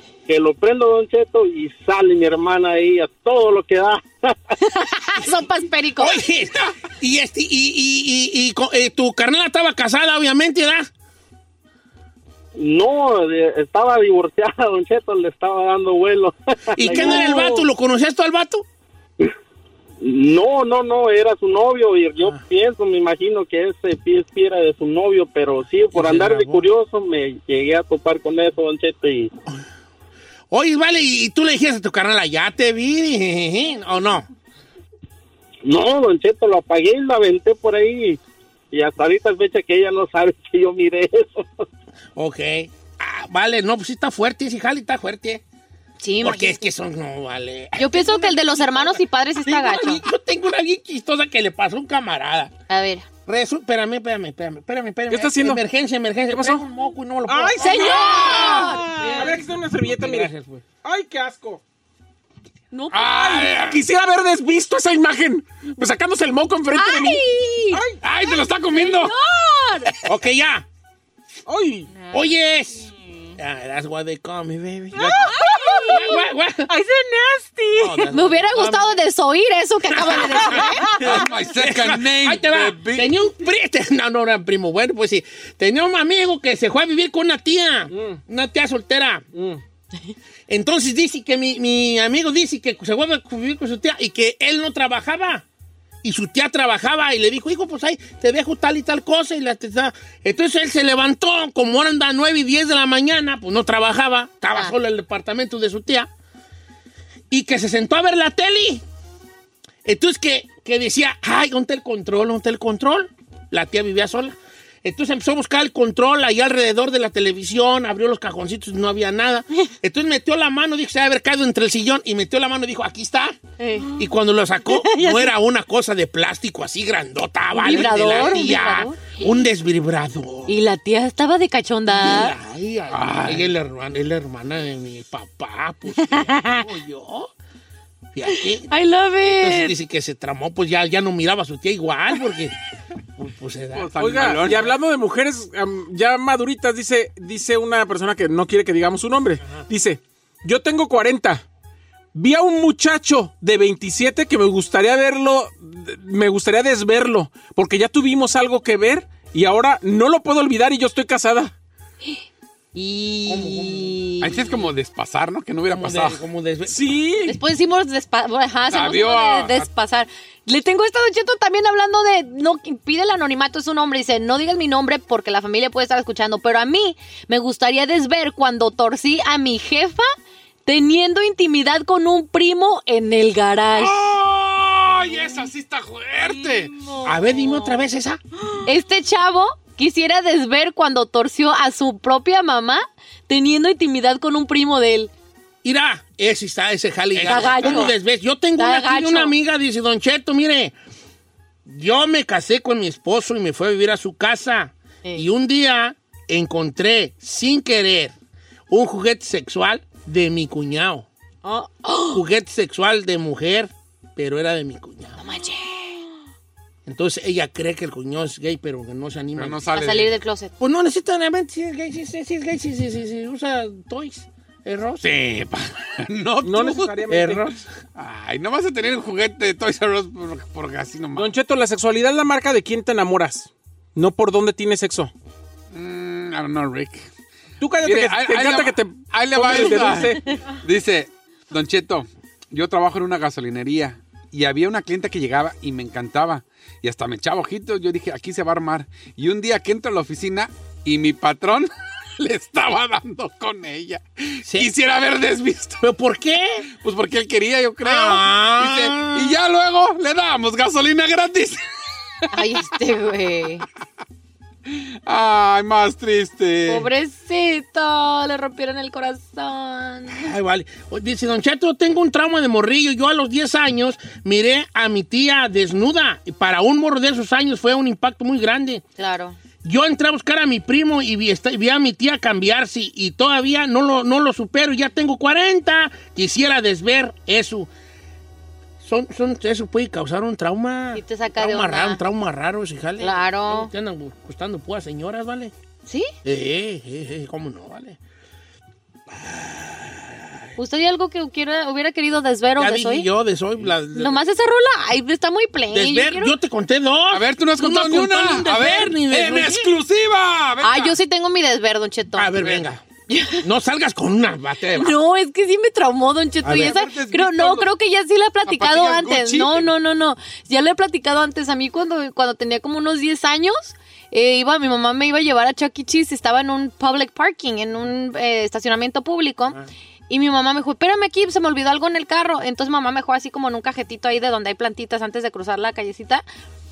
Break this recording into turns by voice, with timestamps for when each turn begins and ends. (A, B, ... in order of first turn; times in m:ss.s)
0:00.3-0:04.3 A
0:04.6-0:06.2 B
0:06.0-0:10.9 C
0:12.6-0:17.6 A
0:16.8-0:18.6 C
0:17.0-0:17.4 B
0:20.0-0:29.3 A
0:25.9-0:26.7 C
0:30.5-0:34.3 C
0:35.6-0:38.2 A
0:38.7-0:41.6 A
0:42.2-0:45.4 C
0:46.0-0:46.6 B
0:46.2-0:52.5 C
0:47.8-0:50.0 B
0:52.7-0:53.0 B
0:53.3-1:00.6 C
0:55.1-0:55.6 D
0:56.3-0:56.6 D
0:57.2-1:01.6 D
0:57.6-0:59.2 B
0:57.9-0:58.8 E
1:02.7-1:03.5 B
1:02.9-1:03.8 E
1:03.6-1:08.0 D
1:06.7-1:09.9 B
1:08.0-1:09.1 E
1:10.0-1:10.6 C
1:11.5-1:11.9 D
1:12.1-1:16.7 C
1:15.0-1:16.1 B
1:15.4-1:16.2 F
1:16.7-1:18.0 F
1:17.7-1:19.0 C
1:18.1-1:21.0 B
1:19.9-1:29.3 C
1:21.0-1:23.1 E
1:27.9-1:28.2 D
1:29.3-1:29.6 D
1:30.5-1:35.4 C
1:36.0-1:46.1 C
1:47.3-1:48.8 C
1:49.8-2:10.6 C
2:03.6-2:04.0 B
2:04.7-2:05.3 B
2:07.5-2:09.0 B
2:10.4-2:12.3 B
2:11.9-2:17.3 C
2:12.9-2:13.5 E
2:16.0-2:16.6 B
2:18.1-2:18.7 C
2:18.3-2:19.7 B
2:19.2-2:22.5 C
2:23.2-2:23.9 C
2:23.7-2:24.8 E
2:24.0-2:31.4 D
2:32.1-2:41.5 D
2:42.7-2:44.6 B
2:43.2-2:44.0 C
2:44.2-2:46.2 E
2:45.7-2:47.0 C
2:46.7-2:47.4 D
2:47.2-3:00.1 B
2:48.7-2:49.7 E
3:00.6-3:04.1 B
3:03.7-3:06.7 E
3:07.0-3:08.2 C
3:08.6-3:15.1 B
3:15.6-3:20.7 C
3:17.2-3:17.9 B
3:18.6-3:19.3 B
3:21.6-3:28.1 C
3:28.7-3:31.1 C
3:31.4-3:32.2 B
3:32.1-3:35.2 C
3:35.2-3:36.0 B
3:36.8-3:39.6 C
3:39.4-3:40.1 E
3:39.7-3:40.5 B
3:40.6-3:45.0 C
3:45.0-3:47.0 E
3:46.4-3:47.5 D
3:47.1-3:47.7 C
3:48.0-3:51.3 E
3:51.1-3:55.1 D
3:55.7-3:57.1 E
3:57.6-4:00.2 D
3:57.8-4:15.8 E
4:14.4-4:14.7 C
4:15.8-4:16.7 C
4:16.8-4:21.6 E
4:17.8-4:19.4 C
4:22.3-4:23.6 B
4:24.7-4:26.9 E
4:26.7-4:30.3 B
4:30.1-4:38.8 C
4:39.0-4:39.4 B
4:39.6-4:47.7 C
4:48.8-4:55.5 C
4:50.9-4:52.0 B
4:53.0-4:53.7 B
4:55.8-4:56.1 B
4:56.2-4:58.0 C
4:59.1-5:00.4 C
5:00.6-5:03.1 B
5:02.6-5:04.2 C
5:03.9-5:06.3 B
5:05.7-5:09.7 C
5:07.1-5:11.0 E
5:10.6-5:12.4 B
5:12.2-5:12.8 C
5:13.1-5:13.4 B
5:13.4-5:14.9 C
5:14.7-5:36.2 B
5:16.4-5:17.7 E
5:18.4-5:19.7 E